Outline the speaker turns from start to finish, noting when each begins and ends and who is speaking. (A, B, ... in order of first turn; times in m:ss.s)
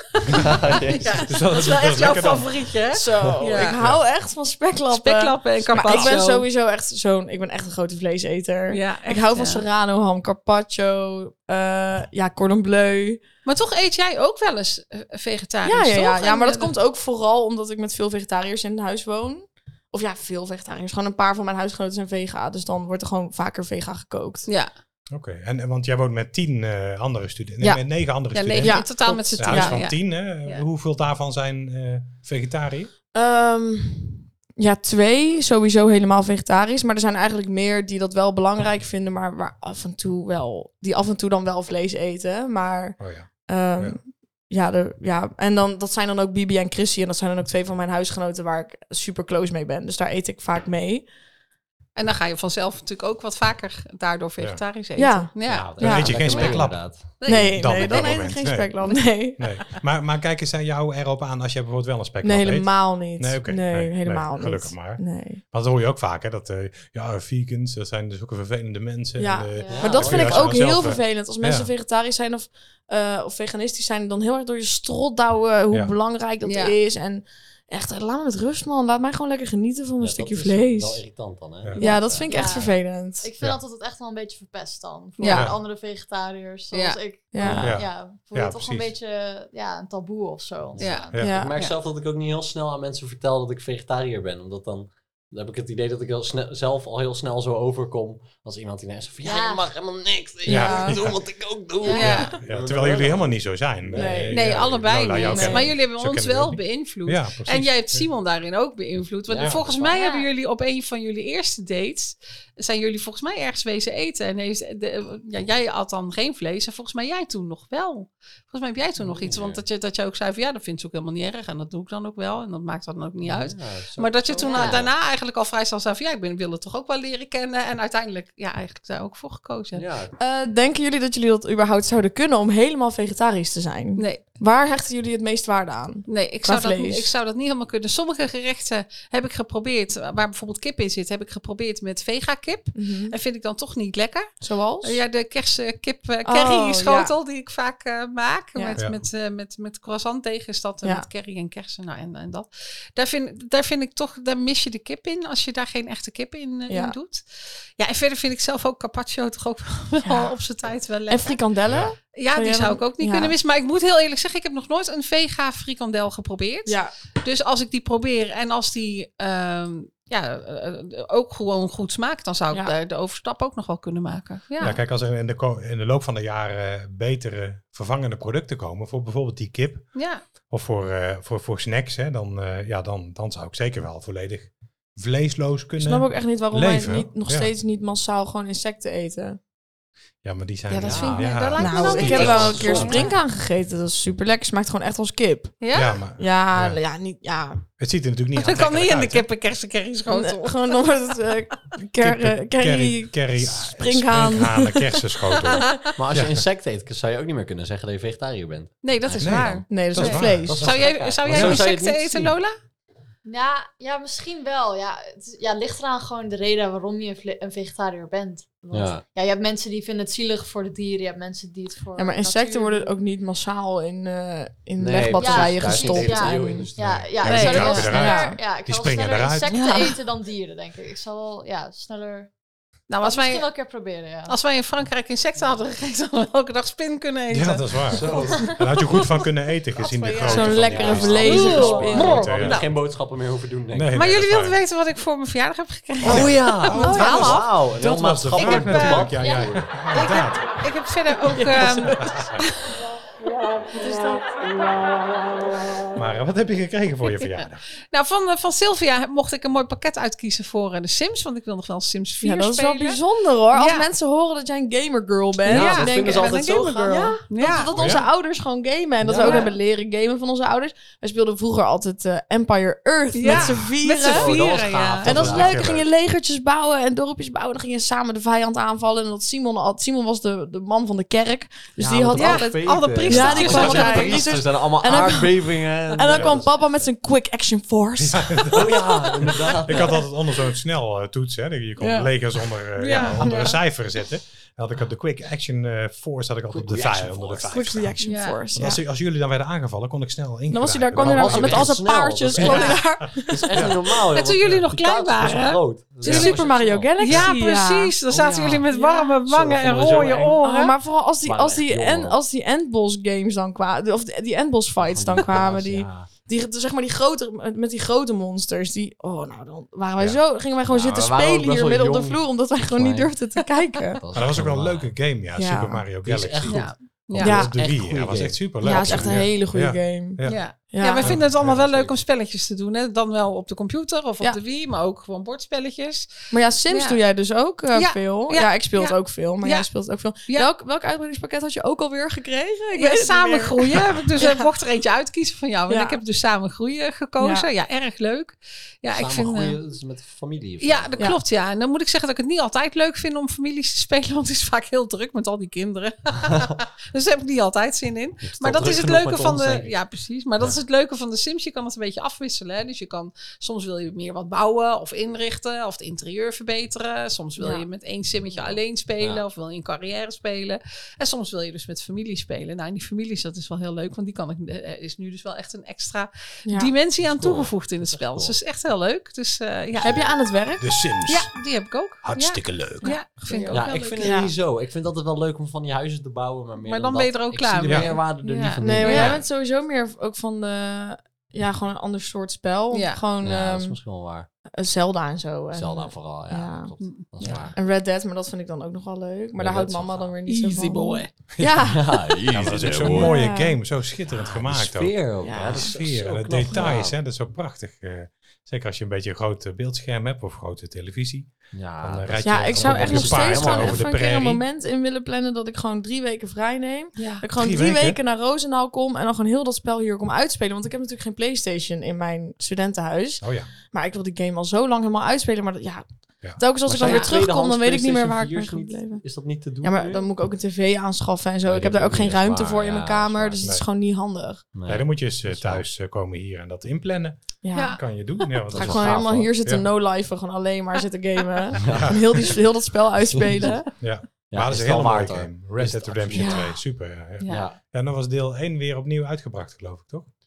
0:00.2-0:03.8 A
0:00.3-0:02.6 B
0:00.3-0:01.2 C
0:02.9-0:13.2 D
0:03.4-0:04.0 B
0:04.9-0:06.5 A
0:05.8-0:06.2 C
0:08.7-0:09.7 A
0:13.4-0:16.7 A
0:15.6-0:24.5 D
0:25.1-0:32.9 B
0:28.3-0:30.6 A
0:28.6-0:29.8 D
0:33.1-0:51.1 D
0:43.0-0:44.0 B
0:52.0-0:56.6 A
0:55.0-0:56.2 D
0:55.5-0:57.0 C
0:55.8-0:58.7 B
0:57.2-0:58.3 A
0:57.3-0:59.6 D
0:59.4-1:11.7 B
1:02.2-1:05.4 D
1:09.2-1:21.0 D
1:09.5-1:10.3 E
1:09.7-1:10.6 C
1:16.4-1:16.8 A
1:20.0-1:22.7 C
1:21.8-1:23.3 D
1:22.3-1:31.2 E
1:25.2-1:25.5 A
1:25.3-1:25.6 B
1:26.7-1:27.0 A
1:27.3-1:27.8 D
1:27.4-1:28.9 B
1:30.7-1:44.6 C
1:30.8-1:31.8 A
1:31.2-1:31.5 D
1:39.2-1:39.6 E
1:40.5-1:41.0 D
1:40.5-1:41.2 B
1:41.8-1:42.2 E
1:41.9-1:42.3 A
1:42.0-1:48.1 B
1:43.9-1:44.4 D
1:44.3-2:09.8 A
1:45.2-1:45.7 D
1:49.3-1:50.0 C
1:49.9-1:50.3 E
1:59.0-1:59.6 C
2:03.2-2:04.9 C
2:04.4-2:04.9 E
2:09.7-2:10.2 C
2:10.2-2:17.1 D
2:14.0-2:14.2 A
2:16.1-2:24.3 A
2:22.8-2:23.2 D
2:24.4-2:25.0 D
2:24.8-2:37.2 A
2:26.2-2:27.1 D
2:28.8-2:29.0 B
2:36.7-2:37.0 D
2:37.8-2:41.4 A
2:40.0-2:40.4 D
2:41.1-2:43.4 D
2:41.7-2:42.0 B
2:42.2-2:54.8 A
2:46.7-2:46.9 D
2:54.6-2:59.9 B
3:00.0-3:00.2 A
3:00.5-3:07.5 B
3:05.8-3:09.4 D
3:10.2-3:13.0 B
3:10.7-3:13.2 A
3:10.8-3:13.1 C
3:11.6-3:17.6 D
3:15.6-3:16.0 A
3:15.7-3:16.8 B
3:17.8-3:19.3 B
3:18.4-3:20.8 A
3:20.1-3:25.7 D
3:22.0-3:26.4 B
3:25.4-3:25.9 A
3:26.0-3:32.4 C
3:28.8-3:32.5 A
3:29.2-3:31.7 B
3:29.7-3:30.6 D
3:33.2-3:43.0 E
3:38.7-3:39.0 C
3:42.0-3:46.7 D
3:44.8-3:47.7 C
3:45.2-3:52.3 E
3:47.2-3:49.5 B
3:47.2-3:47.9 A
3:47.7-3:48.4 D
3:49.5-3:50.0 D
3:52.9-3:53.5 A
3:53.0-3:54.4 E
3:54.3-3:58.1 A
3:57.3-4:02.6 B
3:57.9-3:58.6 C
3:59.8-4:02.7 A
4:00.2-4:02.2 D
4:00.4-4:04.0 C
4:03.7-4:04.6 B
4:03.9-4:07.6 A
4:06.0-4:10.5 B
4:06.0-4:09.7 C
4:08.3-4:09.2 A
4:09.2-4:09.6 E
4:09.9-4:12.1 A
4:11.4-4:12.5 D
4:11.6-4:12.4 B
4:13.7-4:14.3 D
4:15.9-4:17.6 B
4:17.9-4:23.0 A
4:22.2-4:34.3 D
4:23.5-4:23.9 A
4:25.5-4:27.7 A
4:25.5-4:27.2 C
4:27.7-4:28.1 B
4:29.0-4:29.5 C
4:29.1-4:29.5 A
4:33.1-4:35.5 A
4:33.3-4:33.7 B
4:34.0-4:35.8 C
4:35.0-4:49.3 D
4:35.0-4:35.9 B
4:41.8-4:46.9 C
4:42.2-4:44.4 A
4:43.3-4:44.0 B
4:46.1-4:46.4 B
4:48.0-4:58.0 B
4:48.5-4:50.0 C
4:51.8-4:52.1 D
4:52.8-4:53.6 A
4:56.5-4:57.8 C
4:57.5-4:58.8 D
4:58.0-4:58.4 A
4:58.5-5:03.8 B
5:00.5-5:03.7 D
5:01.0-5:07.2 C
5:02.5-5:02.7 A
5:04.1-5:06.4 A
5:06.0-5:07.9 D
5:07.0-5:10.7 A
5:08.1-5:08.7 C
5:08.7-5:09.1 D
5:09.2-5:10.4 C
5:10.4-5:24.0 D
5:11.2-5:12.2 C
5:14.8-5:16.1 C
5:20.7-5:23.1 C
5:24.0-5:25.0 C
5:24.1-5:30.4 B
5:25.4-5:25.8 D
5:26.0-5:29.3 C
5:26.5-5:27.4 A
5:27.2-5:27.5 D
5:28.6-5:31.2 D
5:30.2-5:36.1 A
5:31.0-5:31.6 B
5:31.0-5:31.9 C
5:36.3-5:44.5 D
5:36.7-5:37.0 A
5:37.7-5:39.7 A
5:42.8-5:49.6 A
5:45.7-5:46.0 D
5:47.2-5:47.5 D
5:48.9-5:51.1 C
5:50.6-6:20.1 A
5:58.2-5:59.8 C
6:07.4-6:07.7 D
6:08.4-6:09.2 C
6:16.5-6:16.7 D
6:17.0-6:18.4 C
6:19.8-6:20.7 D
6:20.6-6:21.3 B
6:21.1-6:24.1 A
6:22.0-6:22.9 B
6:22.8-6:24.3 D
6:23.5-6:29.2 C
6:26.6-6:29.2 A
6:27.6-6:28.0 B
6:28.6-6:33.8 D
6:32.7-6:33.0 A
6:33.2-6:34.3 C
6:34.6-6:36.7 D
6:35.5-6:37.6 C
6:36.8-6:37.5 A
6:37.5-6:42.2 D
6:39.4-6:40.1 C
6:40.3-6:41.1 A
6:41.4-6:41.6 B
6:41.6-6:43.2 C
6:42.3-6:54.4 B
6:42.8-6:43.6 D
6:44.1-6:47.0 C
6:45.2-6:45.7 D
6:51.5-6:53.9 C
6:52.2-7:05.9 D
6:57.0-6:57.3 A
6:57.4-6:58.0 B
7:03.2-7:03.5 B
7:06.4-7:09.0 D
7:06.7-7:10.1 C
7:06.8-7:07.2 A
7:09.6-7:14.5 D
7:11.4-7:13.5 C
7:14.6-7:15.7 C
7:14.7-7:19.6 B
7:17.4-7:17.8 D
7:17.5-7:18.3 A
7:18.5-7:19.4 C
7:18.5-7:23.7 D
7:21.6-7:22.3 C
7:21.7-7:22.3 B
7:23.1-7:23.6 C
7:23.8-7:30.1 B
7:24.3-7:26.5 C
7:26.1-7:26.6 D
7:27.2-7:27.5 A
7:27.3-7:27.6 C